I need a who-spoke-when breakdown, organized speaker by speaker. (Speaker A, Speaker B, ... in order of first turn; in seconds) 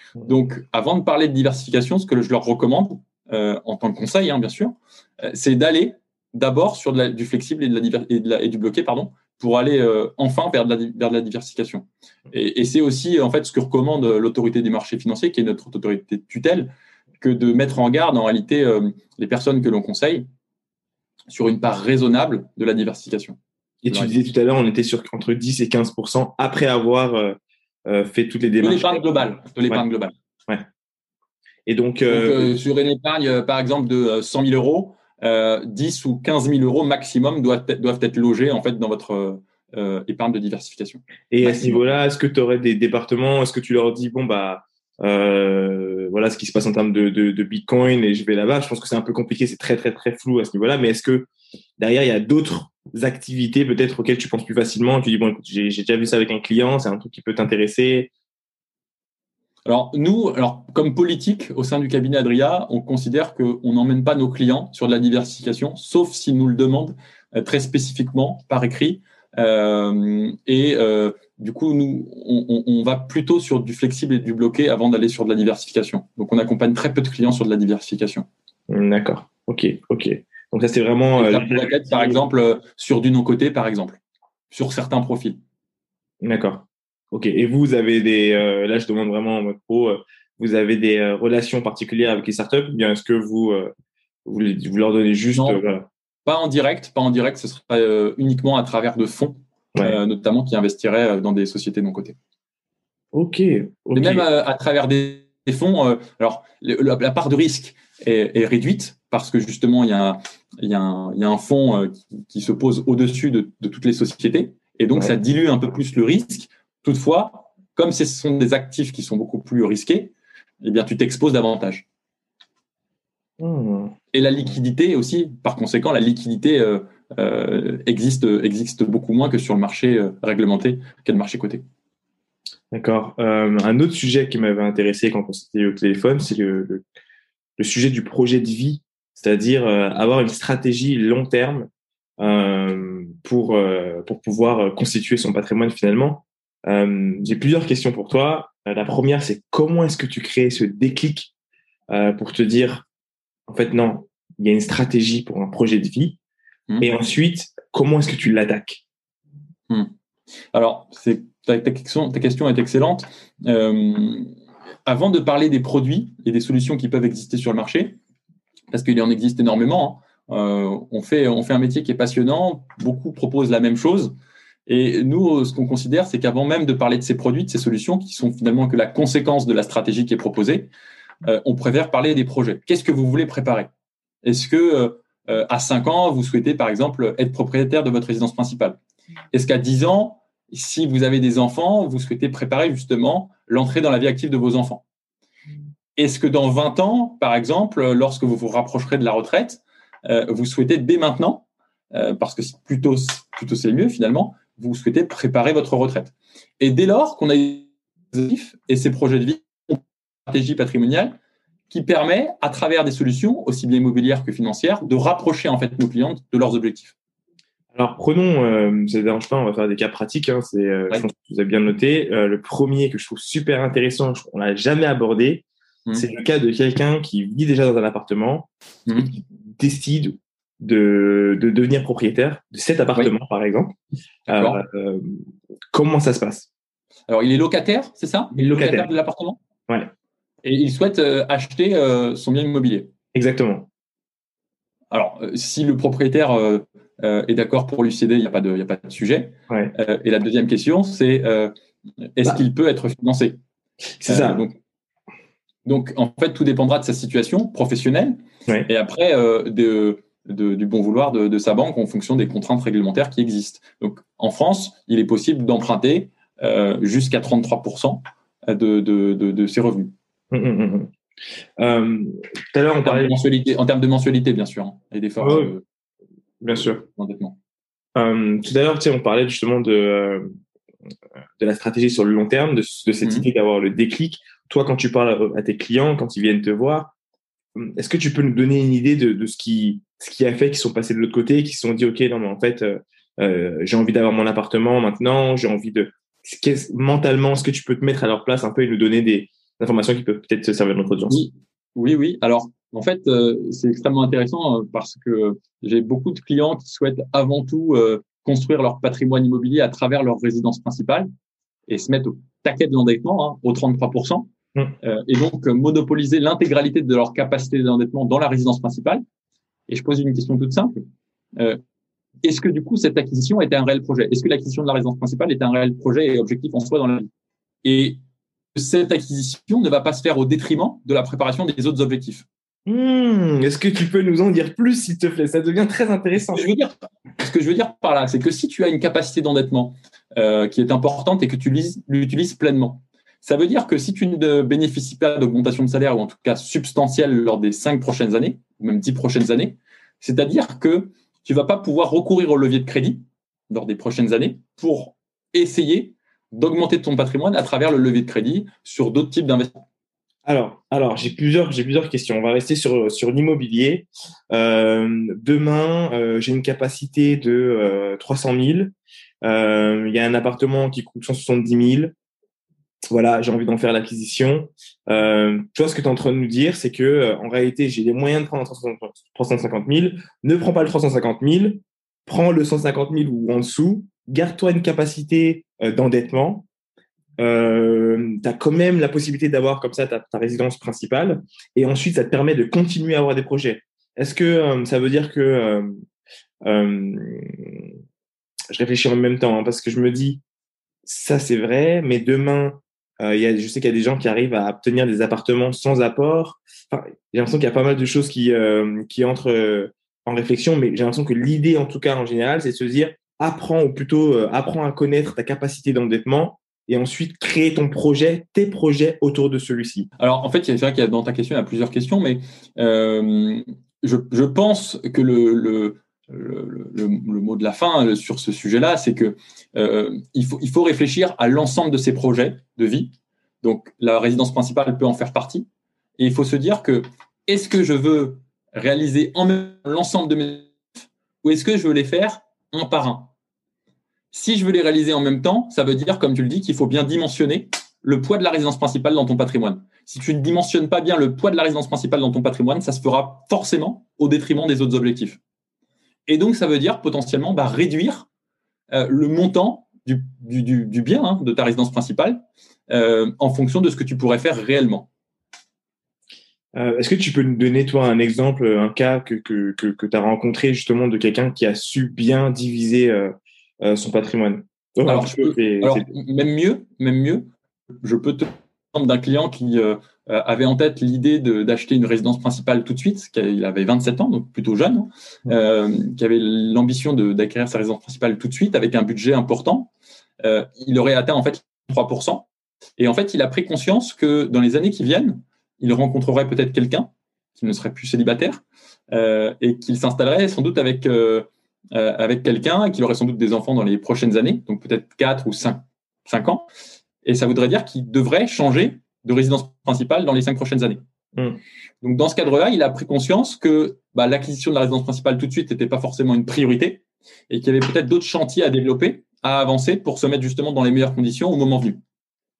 Speaker A: 0.2-20.3, 21.3-23.4, 23.9-24.2, 28.6-30.1, 32.1-41.8, 59.7-78.3, 81.2-84.0, 84.5-85.4, 95.4-95.6, 96.2-102.2, 103.9-121.9, 124.1-131.6, 160.5-164.3, 164.9-168.0, 168.7-174.2, 174.7-180.7, 181.2-183.7, 184.2-188.8, 189.3-194.8, 196.0-211.2, 211.7-216.9, 228.9-229.1, 234.3-234.6, 237.1-239.4, 240.4-242.9, 244.9-251.5, 252.2-253.4, 254.1-254.6, 255.7-269.9, 272.8-275.6, 276.9-277.4, 283.0-283.3, 301.1-311.1, 311.7-314.3, 314.8-319.0, 319.7-320.8, 322.2-327.1, 327.6-328.0, 328.6-332.3, 336.2-359.6, 420.0-435.5, 436.0-440.6, 441.2-443.1, 444.1-455.2, 456.1-458.1, 458.7-464.9, 474.9-477.3, 477.8-489.7, 490.2-492.3, 492.8-506.5, 507.0-510.8, 511.8-521.8
Speaker B: 23.8-29.1, 31.7-32.5, 41.3-58.1, 78.7-82.2, 86.2-93.7, 94.2-95.9, 103.1-104.3, 123.4-123.9, 132.7-136.8, 137.6-141.7, 142.2-151.3, 151.9-152.9, 153.5-156.2, 156.8-158.8, 217.8-233.8, 234.3-235.2, 235.7-236.5, 238.3-238.9, 243.1-243.7, 254.0-254.4, 270.3-270.9, 271.6-273.2, 275.2-275.6, 276.4-276.8, 277.9-280.3, 281.4-286.9, 287.6-301.2, 332.7-336.5, 360.3-368.7, 369.2-371.9, 372.9-386.5, 387.2-395.8, 396.4-397.7, 398.5-400.2, 400.9-419.9, 466.6-475.9